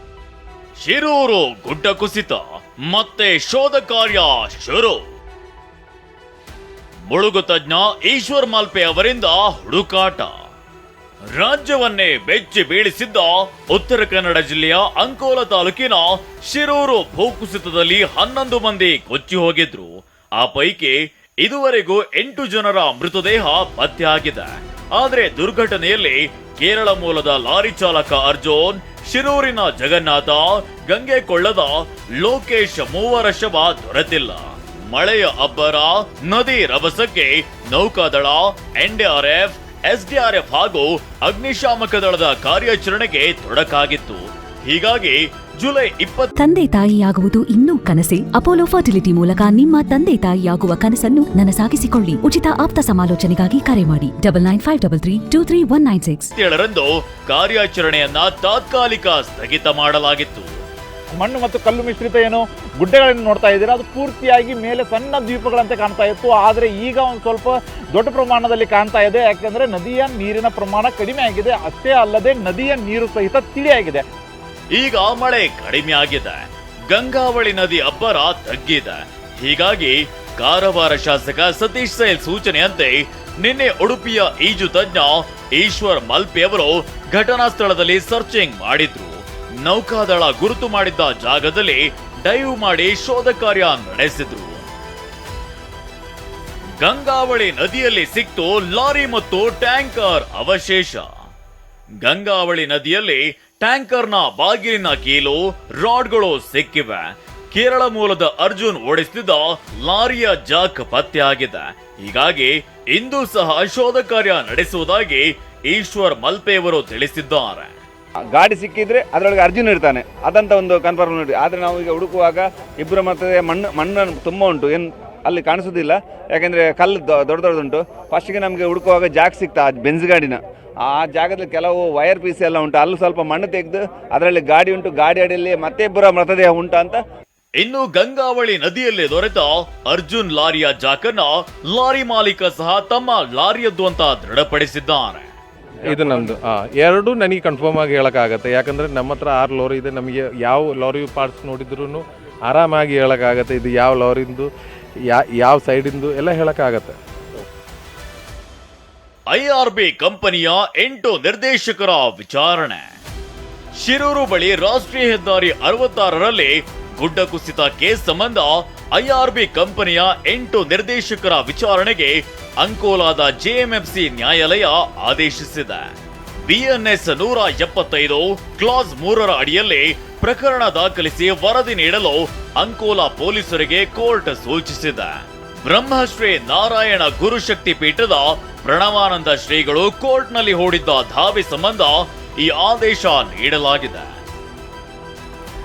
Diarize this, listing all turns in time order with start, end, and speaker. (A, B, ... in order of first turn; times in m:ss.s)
0:00.8-0:05.0 A
0:07.1-0:10.3 A
0:11.3-0:46.3 A
0:46.4-0:56.3 B
0:56.3-1:00.5 A
1:01.1-1:14.0 C
1:14.7-1:34.7 A
1:36.8-1:41.1 A
1:42.0-1:57.7 A
1:58.3-2:17.0 D
2:17.6-2:25.3 A
2:25.9-2:34.5 E
2:35.1-2:37.0 E
2:39.3-2:42.8 A
2:43.8-3:14.2 A